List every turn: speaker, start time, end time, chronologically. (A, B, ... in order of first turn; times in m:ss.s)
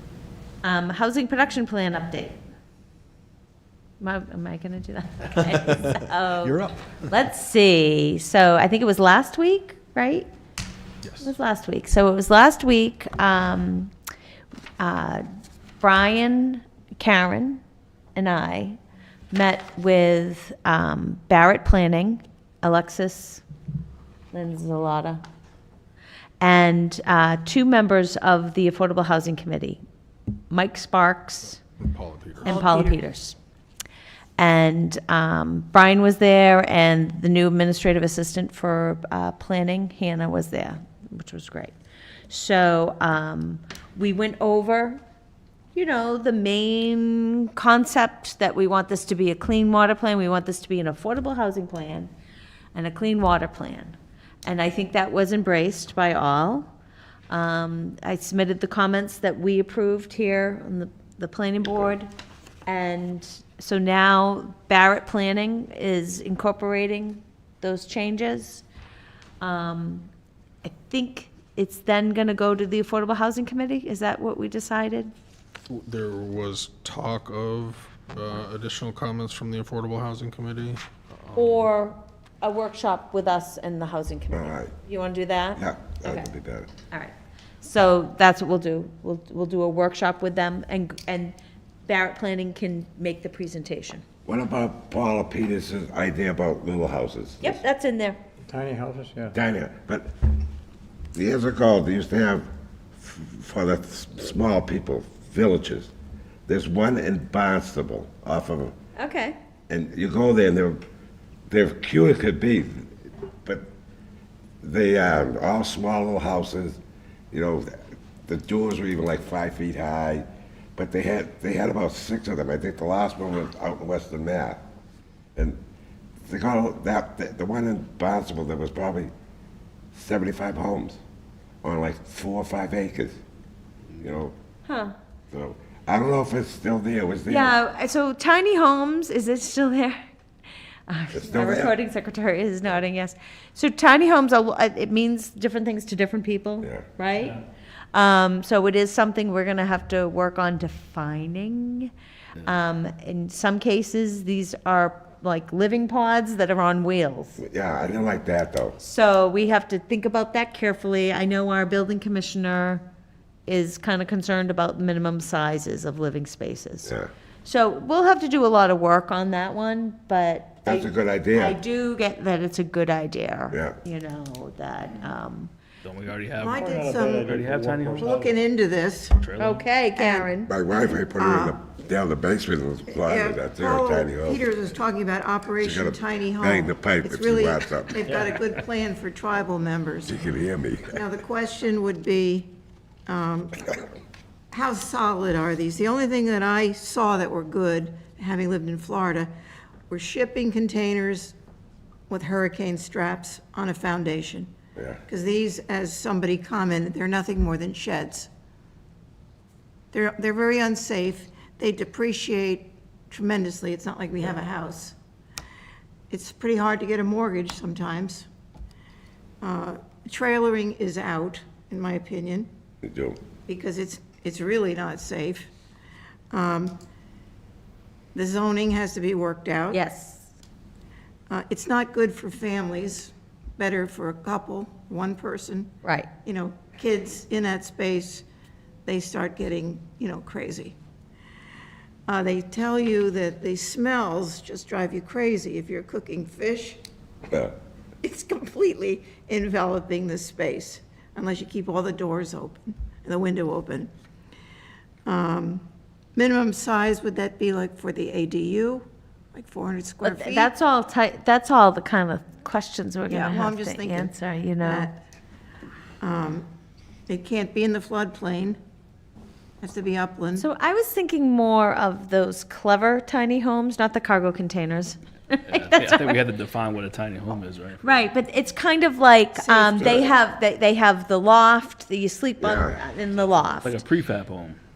0:00.6-0:02.4 A
0:04.0-0:10.3 A
0:11.0-0:11.3 B
0:11.2-0:13.9 A
0:14.8-0:15.2 A
0:15.8-0:17.6 A
0:18.1-0:18.8 A
0:19.3-0:23.4 A
0:24.3-0:25.2 A
0:26.4-0:29.8 A
0:30.5-0:31.6 A
0:31.8-0:32.6 C
0:32.4-0:33.4 A
0:32.4-0:33.0 D
0:34.4-0:41.7 A
0:42.3-0:45.0 A
0:45.7-0:52.1 A
0:52.7-0:56.7 A
0:57.3-1:02.1 A
1:02.6-1:08.6 A
1:09.4-1:10.1 A
1:10.6-1:15.1 A
1:15.7-1:21.6 C
1:21.3-1:26.3 A
1:24.3-1:24.7 E
1:25.6-1:26.7 E
1:26.9-1:34.0 A
1:34.2-1:37.6 E
1:37.4-1:38.2 A
1:38.5-1:39.3 F
1:39.3-1:40.1 E
1:41.1-1:42.5 E
1:43.0-1:45.9 E
1:46.5-1:48.7 E
1:49.0-1:49.4 A
1:49.7-1:50.8 E
1:51.5-1:52.9 E
1:54.6-1:56.8 E
1:57.3-2:04.6 E
2:06.2-2:09.1 E
2:09.9-2:11.0 E
2:11.6-2:13.2 E
2:14.0-2:14.3 E
2:14.6-2:14.9 A
2:15.3-2:17.5 E
2:17.3-2:20.0 A
2:20.9-2:27.4 A
2:21.1-2:21.7 E
2:27.9-2:31.9 A
2:32.4-2:37.4 A
2:37.4-2:38.8 E
2:38.8-2:42.8 A
2:43.5-2:55.5 A
2:50.6-2:51.6 E
2:55.8-2:58.1 B
2:56.4-2:57.4 D
2:56.7-2:58.3 F
2:57.9-2:59.2 D
2:59.2-2:59.6 B
2:59.4-3:00.5 A
3:00.0-3:00.3 D
3:00.5-3:04.4 E
3:01.2-3:01.6 D
3:03.0-3:10.1 D
3:05.6-3:08.0 E
3:10.1-3:11.0 E
3:10.9-3:12.5 D
3:13.1-3:13.8 D
3:14.5-3:19.3 D
3:19.9-3:21.3 D
3:22.1-3:24.5 D
3:24.8-3:25.0 E
3:25.1-3:28.3 D
3:29.9-3:34.9 D
3:36.1-3:38.3 D
3:39.4-3:42.5 D
3:42.8-3:43.2 E
3:43.5-3:45.5 D
3:46.3-3:46.8 D
3:48.1-3:49.8 D
3:49.7-3:50.3 A
3:51.3-3:55.7 D
3:55.8-3:56.1 A
3:56.2-3:58.2 D
3:58.8-4:00.8 D
4:02.1-4:06.8 D
4:08.0-4:13.9 D
4:15.0-4:20.5 D
4:20.0-4:24.9 A
4:23.1-4:25.0 D
4:26.0-4:26.5 D
4:27.1-4:28.6 D
4:29.6-4:30.5 D
4:30.4-4:36.1 A
4:35.5-4:38.1 B
4:37.8-4:43.8 A
4:39.3-4:40.1 D
4:42.4-4:42.8 E
4:43.5-4:44.6 B